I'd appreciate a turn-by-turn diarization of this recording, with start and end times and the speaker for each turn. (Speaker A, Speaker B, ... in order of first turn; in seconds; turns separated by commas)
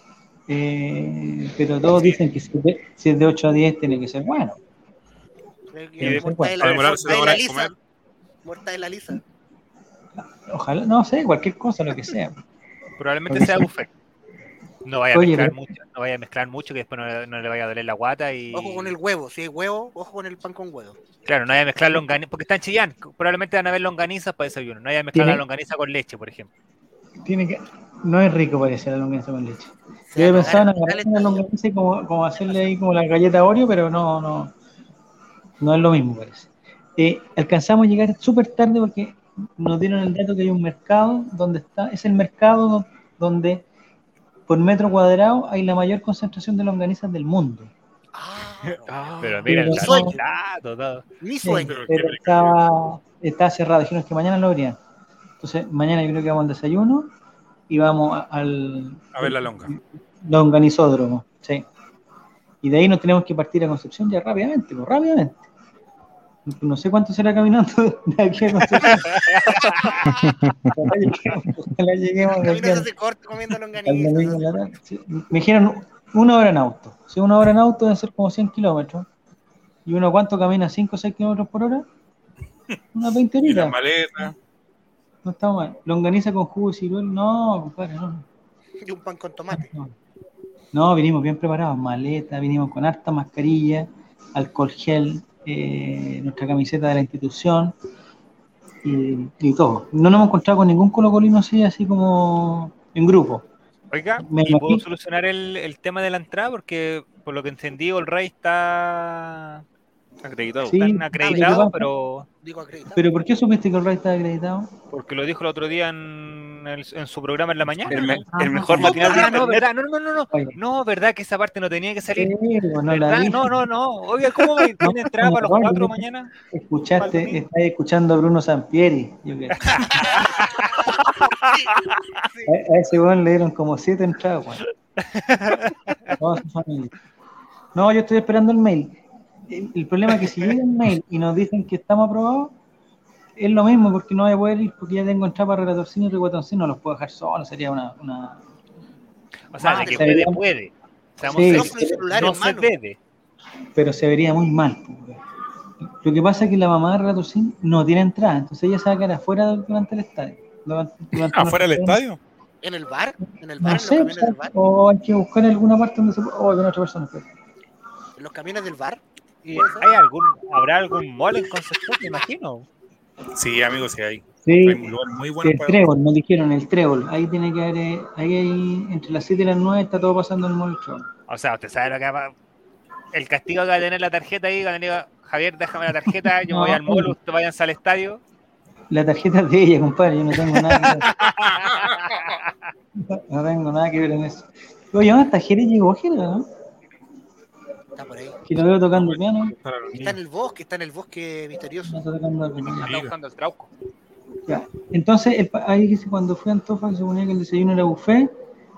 Speaker A: 0.5-4.6, Speaker B: 1.9-2.2, Speaker C: 5.7-7.7, Speaker A: 6.0-6.7, Speaker D: 6.0-7.7, Speaker C: 8.4-9.2, Speaker A: 10.2-12.4, Speaker B: 13.0-13.9, Speaker A: 13.3-13.7, Speaker B: 14.8-18.9, Speaker A: 15.1-15.6, Speaker C: 18.5-21.0, Speaker B: 21.2-26.5, Speaker A: 25.1-25.4, Speaker A: 27.2-34.5, Speaker C: 30.1-31.4, Speaker B: 30.3-30.6, Speaker A: 35.6-43.6, Speaker A: 44.5-47.7, Speaker C: 48.1-50.2, Speaker E: 48.9-49.7, Speaker B: 49.2-51.0, Speaker A: 49.5-50.2, Speaker C: 51.2-51.8, Speaker A: 51.4-54.8, Speaker D: 51.7-52.6, Speaker A: 55.4-57.1, Speaker A: 57.7-61.7, Speaker D: 59.1-59.7, Speaker A: 62.6-65.5, Speaker A: 66.5-70.1, Speaker B: 69.0-70.0, Speaker A: 70.7-72.9, Speaker C: 72.4-74.6, Speaker A: 73.8-79.1, Speaker A: 79.9-81.9, Speaker A: 82.9-84.3, Speaker D: 83.4-84.3, Speaker A: 85.2-88.3, Speaker C: 88.8-89.7, Speaker A: 89.5-89.9, Speaker A: 90.7-97.8, Speaker A: 98.8-103.5, Speaker B: 103.9-109.6, Speaker A: 104.2-104.8, Speaker E: 110.2-110.9, Speaker A: 110.6-111.9, Speaker B: 110.7-112.3, Speaker C: 112.4-113.1, Speaker A: 112.9-114.7, Speaker B: 114.9-118.1, Speaker E: 117.9-119.7, Speaker D: 117.9-118.2, Speaker A: 117.9-119.4, Speaker B: 118.7-122.3, Speaker A: 120.3-120.6, Speaker A: 122.2-123.6, Speaker B: 122.9-126.3, Speaker A: 124.8-130.2, Speaker B: 127.0-127.4, Speaker B: 129.6-131.2, Speaker C: 130.0-132.5, Speaker A: 132.5-134.6, Speaker B: 135.0-136.2, Speaker A: 136.2-136.9, Speaker A: 137.8-142.6, Speaker A: 143.4-148.4, Speaker B: 149.5-153.0, Speaker C: 149.6-150.3, Speaker A: 149.6-150.4, Speaker A: 151.2-152.2, Speaker C: 151.2-152.7, Speaker A: 153.8-155.2, Speaker A: 156.0-162.0, Speaker D: 161.2-162.2, Speaker C: 162.6-164.5, Speaker A: 163.2-167.3, Speaker C: 168.2-169.9, Speaker B: 169.5-172.7, Speaker D: 173.3-175.9, Speaker A: 174.4-181.1, Speaker B: 181.3-182.3, Speaker B: 183.1-188.2, Speaker A: 186.1-187.2, Speaker A: 188.9-191.1, Speaker B: 190.6-192.5, Speaker D: 191.3-192.2, Speaker A: 193.0-196.5, Speaker C: 198.0-198.4, Speaker A: 198.5-199.6, Speaker D: 198.9-200.2, Speaker C: 200.0-202.0, Speaker A: 201.8-202.9, Speaker B: 202.6-203.7, Speaker D: 202.8-203.1, Speaker A: 204.5-208.3